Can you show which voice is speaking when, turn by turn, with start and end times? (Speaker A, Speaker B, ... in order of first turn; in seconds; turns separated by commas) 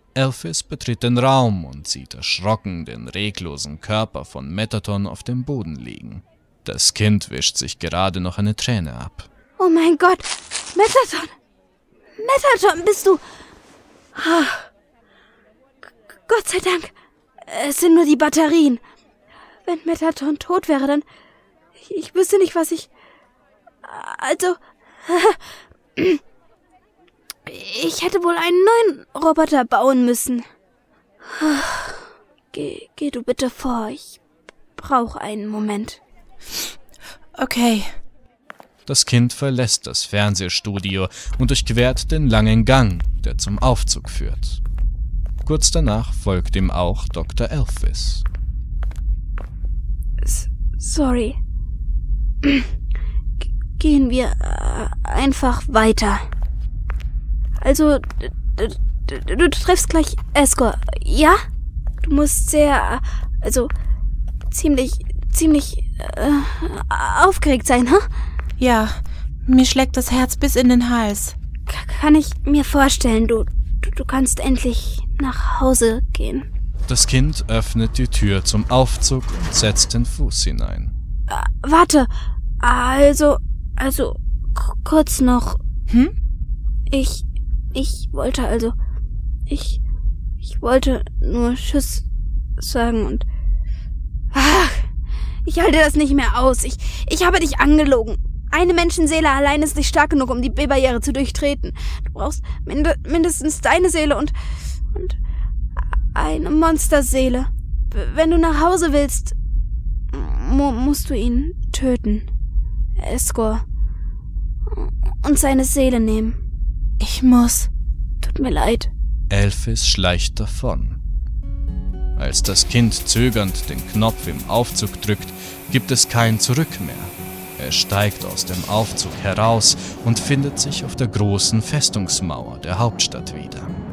Speaker A: 0.1-9.3, Speaker B: 9.6-11.3, Speaker B: 12.2-13.2, Speaker B: 14.1-14.7, Speaker B: 16.3-16.9, Speaker B: 17.5-18.8, Speaker B: 19.6-21.0, Speaker B: 21.8-22.9, Speaker B: 23.8-25.4, Speaker B: 27.5-30.4, Speaker B: 31.3-34.2, Speaker B: 34.8-36.0, Speaker C: 37.4-38.0, Speaker A: 38.9-44.6, Speaker A: 45.5-48.2, Speaker B: 50.2-51.4, Speaker B: 53.8-56.2, Speaker B: 57.6-61.4, Speaker B: 62.0-63.7, Speaker B: 64.5-68.1, Speaker C: 68.6-71.3, Speaker B: 71.7-76.5, Speaker A: 76.9-80.9, Speaker B: 81.3-82.1, Speaker B: 82.6-85.6, Speaker B: 86.9-88.8, Speaker B: 89.5-89.8, Speaker B: 90.4-92.0, Speaker B: 92.6-93.2, Speaker B: 94.3-94.9, Speaker B: 95.4-104.3, Speaker B: 104.8-105.2, Speaker B: 106.1-109.3, Speaker B: 110.1-112.2, Speaker B: 113.0-113.6, Speaker B: 114.7-116.4, Speaker C: 117.0-117.7, Speaker B: 118.2-118.9, Speaker A: 119.3-121.0, Speaker A: 122.2-133.7